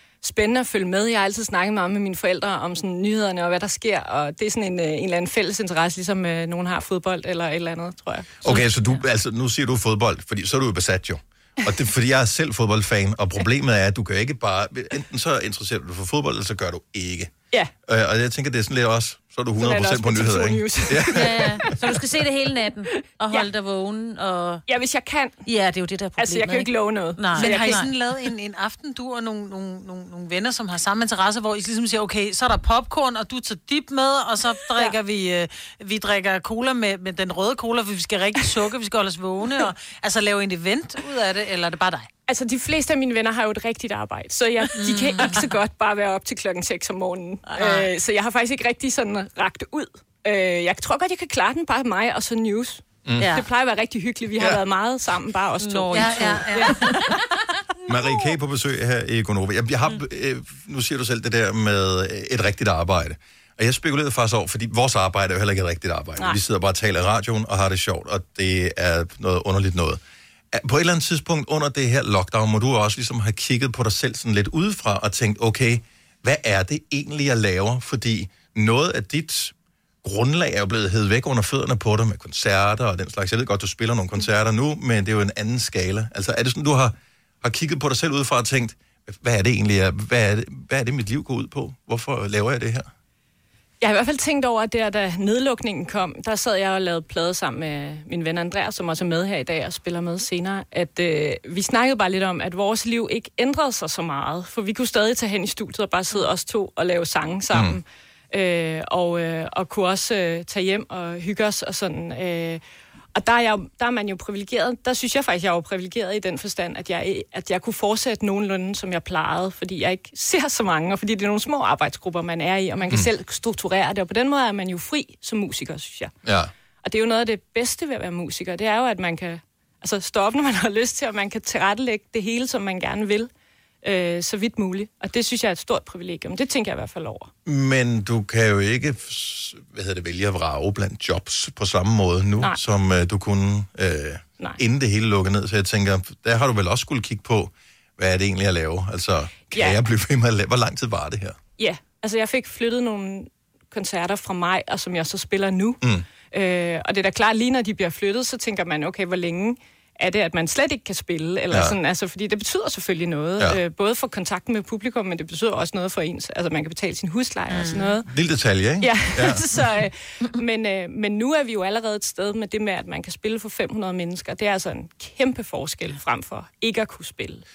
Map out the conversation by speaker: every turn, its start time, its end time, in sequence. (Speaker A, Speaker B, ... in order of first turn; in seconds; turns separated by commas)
Speaker A: 0.2-8.6, Speaker B: 8.4-21.8, Speaker A: 19.6-21.3, Speaker C: 21.1-24.6, Speaker A: 24.7-25.4, Speaker C: 25.4-27.9, Speaker A: 26.2-27.9, Speaker D: 27.2-42.1, Speaker A: 42.3-57.2, Speaker D: 44.8-45.5, Speaker D: 47.5-47.9, Speaker B: 53.1-53.3, Speaker C: 55.6-57.2, Speaker D: 55.9-57.0, Speaker B: 57.9-70.0, Speaker B: 70.5-92.9, Speaker A: 93.8-112.6, Speaker B: 107.5-107.8, Speaker A: 113.2-126.1, Speaker B: 126.2-126.5, Speaker A: 126.8-133.3, Speaker A: 133.8-137.3, Speaker B: 137.4-151.4, Speaker A: 149.5-149.8, Speaker A: 151.6-168.1, Speaker B: 161.5-161.8, Speaker D: 167.5-168.0, Speaker B: 168.1-169.5, Speaker A: 168.8-177.4